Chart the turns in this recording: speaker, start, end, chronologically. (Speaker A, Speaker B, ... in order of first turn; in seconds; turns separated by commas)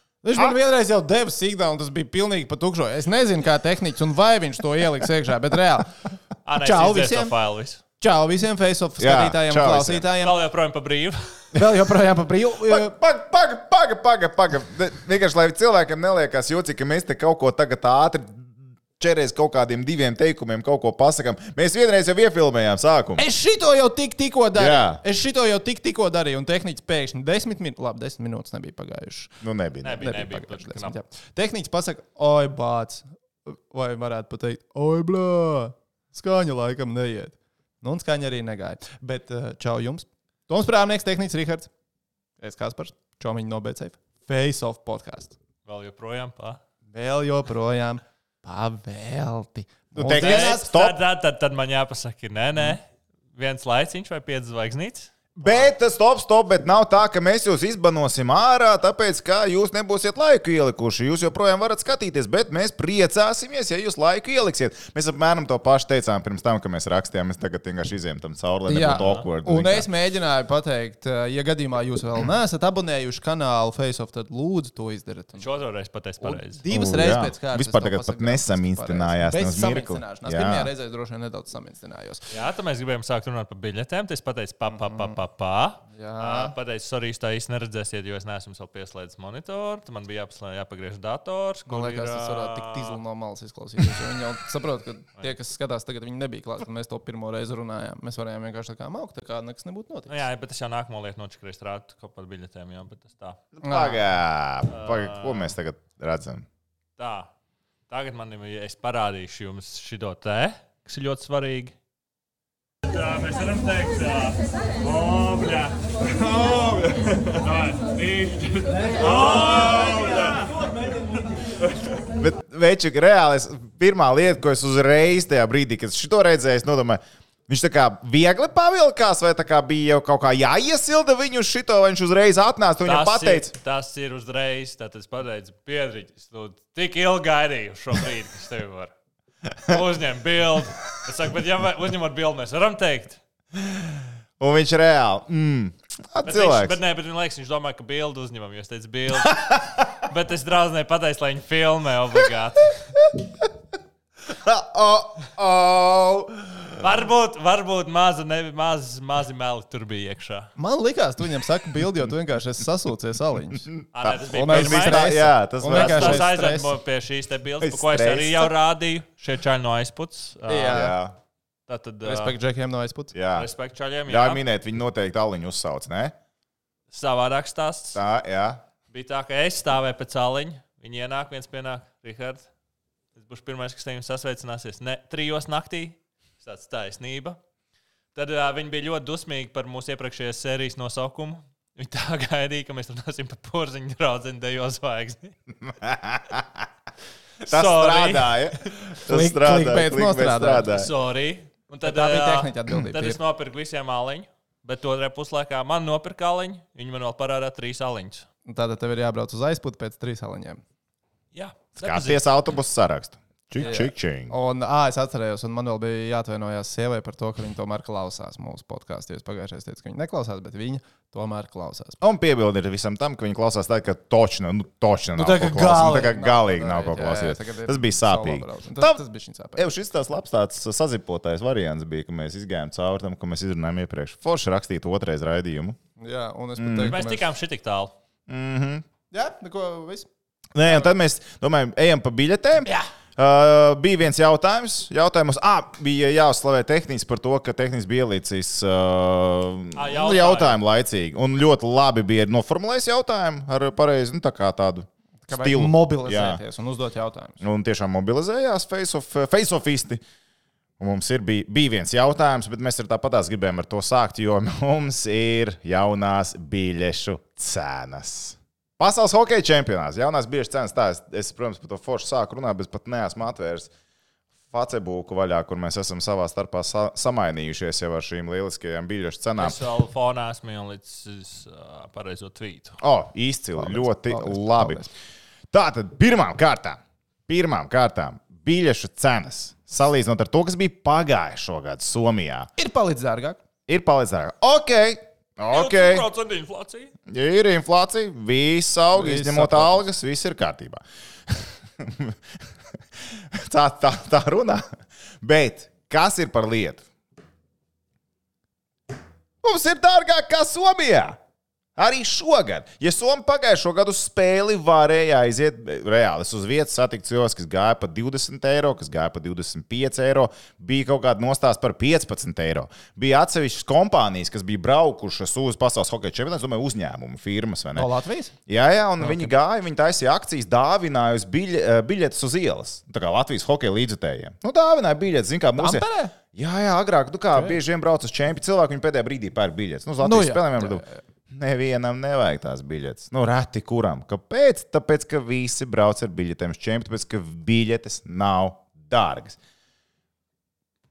Speaker A: 0.2-5.9, Speaker B: 6.4-7.8, Speaker A: 6.5-7.3, Speaker A: 8.0-10.4, Speaker C: 9.0-10.1, Speaker B: 10.2-11.4, Speaker A: 11.5-12.9, Speaker C: 12.6-23.2, Speaker A: 23.2-29.3, Speaker C: 24.6-25.0, Speaker C: 29.4-30.1, Speaker B: 29.8-31.0, Speaker A: 29.9-41.7, Speaker A: 42.4-45.4, Speaker B: 45.6-46.6, Speaker A: 46.9-50.7, Speaker C: 49.9-50.9, Speaker B: 50.1-55.7, Speaker C: 55.4-69.8, Speaker A: 68.7-75.5, Speaker B: 68.9-69.2, Speaker B: 75.3-76.6, Speaker A: 76.2-82.3, Speaker C: 76.7-80.7, Speaker B: 82.3-93.0, Speaker A: 84.7-85.2, Speaker A: 85.9-86.5, Speaker A: 91.7-100.2, Speaker B: 100.1-103.4, Speaker C: 103.6-106.5, Speaker A: 103.6-104.0, Speaker B: 104.7-105.5, Speaker B: 107.0-107.3, Speaker B: 107.9-111.7, Speaker B: 112.8-120.6, Speaker C: 122.2-133.5, Speaker B: 132.8-138.9, Speaker B: 139.7-143.2, Speaker C: 143.6-146.8, Speaker B: 146.2-152.9, Speaker C: 154.3-156.8, Speaker B: 156.8-160.5, Speaker A: 160.6-163.7, Speaker C: 163.7-166.3, Speaker B: 163.9-170.9, Speaker A: 164.3-166.7, Speaker C: 167.6-168.5, Speaker A: 170.5-170.9, Speaker C: 170.7-171.1, Speaker B: 171.7-172.3, Speaker A: 172.0-173.1, Speaker C: 173.1-173.5, Speaker B: 173.3-174.4, Speaker C: 174.1-176.1, Speaker B: 176.9-178.0, Speaker C: 177.9-178.6, Speaker B: 178.9-182.5, Speaker B: 183.1-187.4, Speaker B: 188.1-195.3, Speaker C: 195.6-196.6, Speaker B: 197.4-198.5, Speaker C: 197.4-200.9, Speaker A: 199.1-200.7, Speaker B: 200.7-208.2, Speaker A: 201.7-203.2, Speaker A: 208.4-210.6, Speaker B: 211.3-212.2, Speaker C: 211.8-214.3, Speaker A: 213.6-222.0, Speaker C: 222.0-229.0, Speaker A: 225.2-229.7, Speaker C: 229.6-235.8, Speaker A: 236.0-237.3, Speaker C: 236.6-237.0, Speaker B: 236.8-237.9, Speaker C: 238.3-238.8, Speaker A: 239.1-240.1, Speaker C: 240.5-256.4, Speaker A: 240.7-240.9, Speaker B: 249.8-250.6, Speaker A: 255.3-257.4, Speaker C: 257.4-260.0, Speaker C: 260.8-273.7, Speaker C: 274.5-279.6, Speaker B: 279.4-282.8, Speaker C: 282.8-284.8, Speaker A: 283.6-284.9, Speaker C: 285.5-292.5, Speaker A: 292.6-293.4, Speaker C: 293.7-296.1, Speaker B: 295.5-296.9, Speaker C: 297.1-302.1, Speaker A: 298.9-299.8, Speaker C: 303.1-306.8, Speaker C: 309.4-311.2, Speaker C: 311.8-327.9, Speaker A: 327.7-328.3, Speaker C: 328.5-349.4, Speaker A: 329.0-329.3, Speaker A: 335.6-336.1, Speaker A: 340.0-341.0